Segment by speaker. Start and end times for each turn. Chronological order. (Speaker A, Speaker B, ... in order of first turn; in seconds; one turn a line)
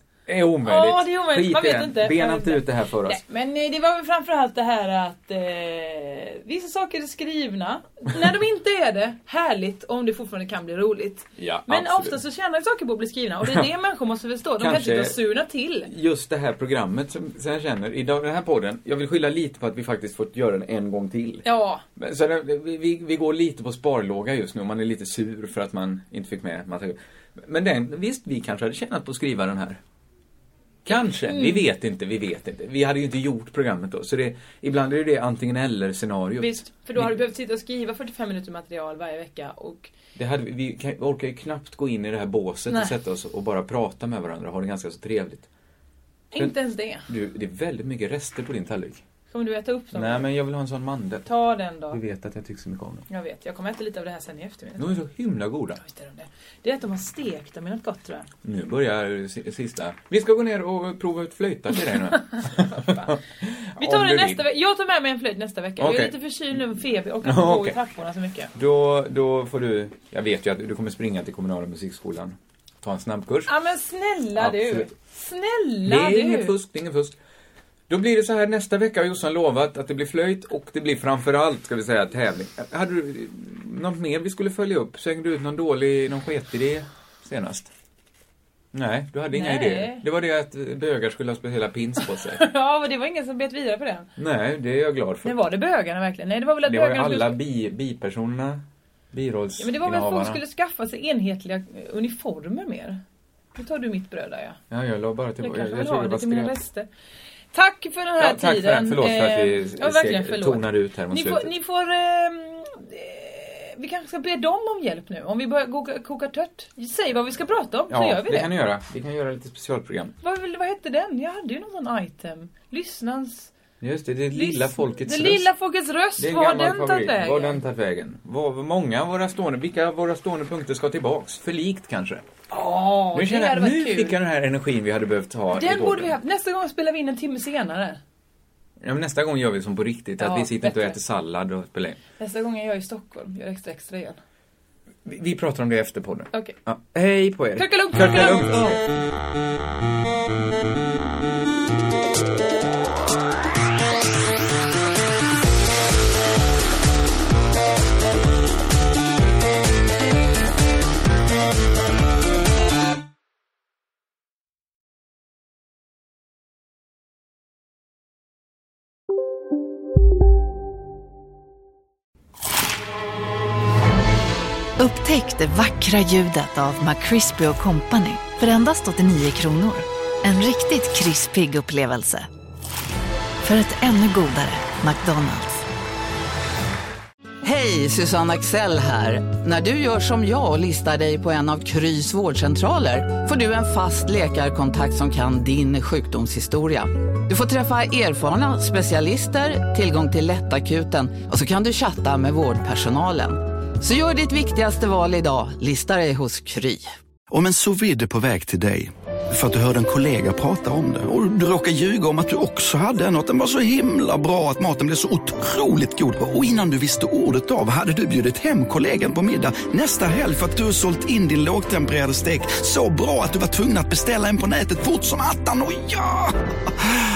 Speaker A: 0.3-3.2
Speaker B: 0.6-15.9
Speaker A: 11.3-12.2
Speaker A: 13.4-13.7
Speaker A: 14.6-15.2
Speaker A: 15.8-21.4
Speaker B: 21.4-21.8
Speaker A: 21.9-29.8
Speaker A: 30.8-37.2
Speaker B: 30.9-31.7
Speaker B: 36.4-39.9
Speaker A: 40.1-45.5
Speaker B: 42.7-42.9
Speaker B: 46.3-47.1
Speaker A: 47.1-49.0
Speaker B: 49.3-50.3
Speaker A: 49.9-51.3
Speaker B: 51.2-52.0
Speaker A: 51.9-53.0
Speaker B: 53.1-55.0
Speaker A: 54.8-55.8
Speaker B: 55.8-58.3
Speaker A: 58.4-64.4
Speaker B: 62.4-63.1
Speaker B: 63.8-68.5
Speaker A: 65.8-66.2
Speaker A: 67.2-67.8
Speaker A: 68.5-73.5
Speaker B: 73.5-76.5
Speaker A: 74.3-74.9
Speaker A: 75.8-77.2
Speaker A: 77.9-87.7
Speaker A: 88.7-92.4
Speaker B: 89.3-90.0
Speaker B: 92.2-94.1
Speaker A: 94.2-95.3
Speaker B: 95.2-97.4
Speaker A: 96.6-100.4
Speaker B: 99.6-103.0
Speaker B: 103.5-104.6
Speaker A: 104.7-106.6
Speaker B: 105.4-106.9
Speaker B: 107.5-118.5
Speaker A: 108.2-111.5
Speaker A: 117.9-120.1
Speaker B: 120.2-123.5
Speaker A: 123.8-125.5
Speaker B: 124.3-127.6
Speaker A: 126.2-132.2
Speaker B: 132.5-134.2
Speaker A: 133.1-136.1
Speaker B: 135.5-138.0
Speaker A: 138.8-142.0
Speaker B: 140.2-141.0
Speaker B: 142.2-144.2
Speaker A: 145.0-148.8
Speaker B: 147.6-148.8
Speaker C: 174.8-182.3
Speaker C: 183.4-185.6
Speaker D: 187.4-206.9
Speaker E: 207.3-226.9